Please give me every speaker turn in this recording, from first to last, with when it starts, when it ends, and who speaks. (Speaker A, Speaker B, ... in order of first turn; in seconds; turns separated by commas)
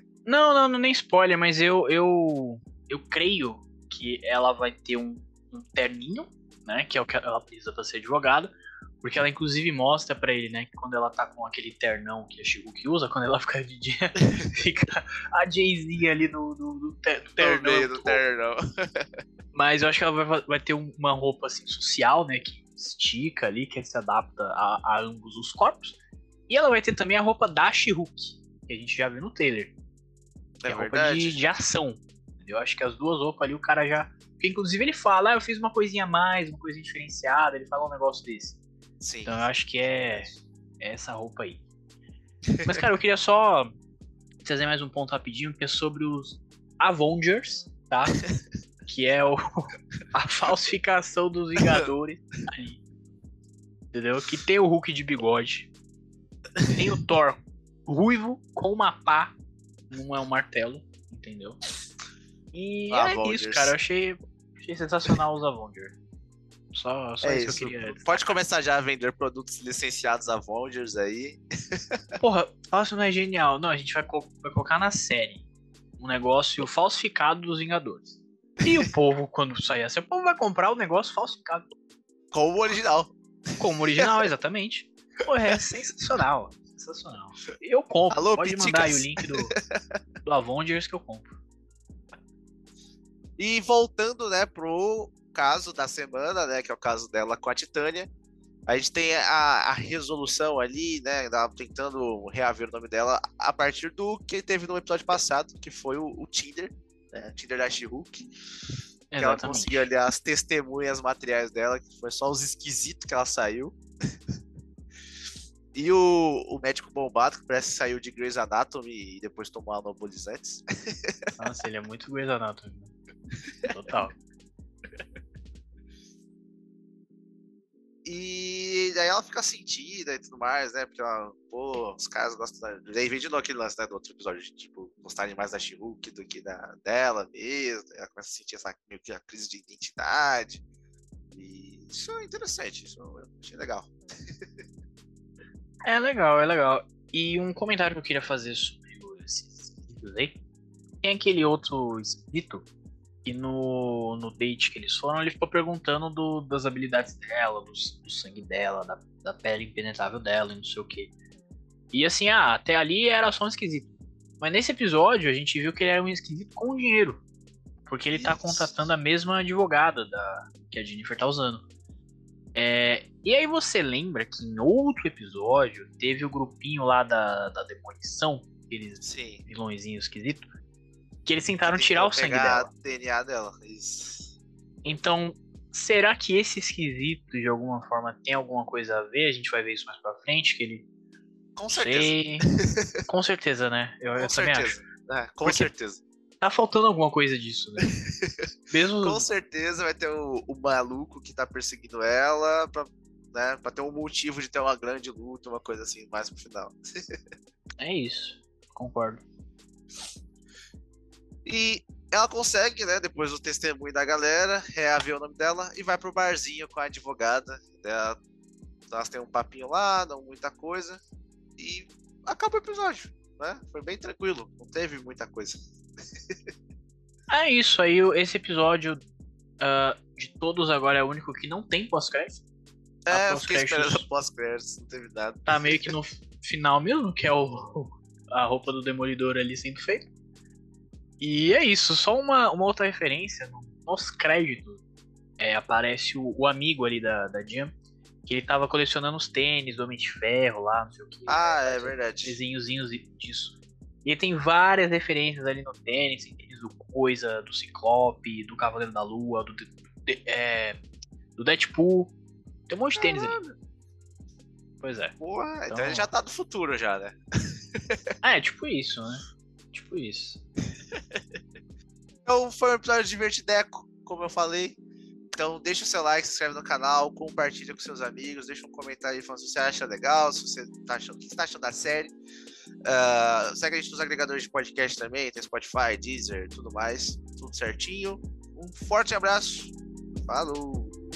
Speaker A: 0.2-18.2, Speaker B: 17.4-19.1, Speaker A: 19.5-26.0, Speaker A: 26.5-29.7, Speaker B: 30.6-31.4, Speaker A: 30.7-38.6, Speaker B: 39.0-40.3, Speaker A: 39.2-41.6, Speaker B: 42.5-42.8, Speaker A: 42.6-43.7, Speaker A: 44.4-48.2, Speaker A: 48.9-52.8, Speaker B: 51.5-51.8, Speaker A: 53.9-55.7, Speaker A: 56.7-59.4, Speaker A: 59.9-61.6, Speaker A: 62.5-65.9, Speaker B: 62.9-63.7, Speaker A: 66.7-68.3, Speaker B: 67.2-72.0, Speaker A: 72.2-75.4, Speaker A: 76.0-81.7, Speaker B: 82.3-84.1, Speaker A: 83.6-89.5, Speaker B: 88.1-89.6, Speaker A: 90.2-91.3, Speaker B: 93.4-98.1, Speaker B: 98.7-108.3, Speaker A: 109.1-109.9, Speaker B: 109.2-113.8, Speaker B: 115.7-121.1, Speaker A: 121.4-122.9, Speaker B: 123.6-124.0, Speaker A: 123.7-124.2, Speaker B: 128.0-140.6, Speaker B: 141.3-143.9, Speaker A: 145.8-150.4, Speaker A: 151.0-152.6, Speaker A: 153.2-161.1, Speaker A: 161.9-167.2, Speaker A: 167.9-171.6, Speaker B: 168.1-168.7, Speaker A: 172.5-180.5, Speaker B: 179.0-179.4, Speaker A: 181.2-182.7, Speaker B: 181.7-184.3, Speaker A: 184.8-190.8, Speaker B: 191.6-192.8, Speaker A: 191.7-192.5, Speaker A: 193.1-194.8, Speaker B: 194.2-196.0, Speaker A: 195.4-195.7, Speaker A: 196.4-197.9, Speaker B: 198.0-198.4, Speaker A: 198.7-199.2, Speaker B: 199.0-206.8, Speaker A: 207.8-209.2, Speaker B: 211.4-218.2, Speaker B: 218.9-221.0, Speaker B: 221.6-225.6, Speaker A: 227.3-229.0, Speaker A: 229.6-232.4, Speaker B: 233.1-235.9, Speaker A: 233.1-234.0, Speaker A: 235.4-240.1, Speaker A: 241.2-244.8, Speaker A: 245.4-260.8, Speaker B: 251.3-252.4, Speaker A: 261.4-262.1, Speaker A: 262.7-263.4, Speaker B: 263.0-263.5, Speaker A: 264.8-265.1, Speaker B: 265.2-267.2, Speaker A: 265.7-266.1, Speaker A: 268.2-270.4, Speaker B: 270.9-271.2, Speaker B: 272.2-274.8, Speaker B: 275.3-282.1, Speaker B: 282.9-289.7, Speaker B: 290.2-290.9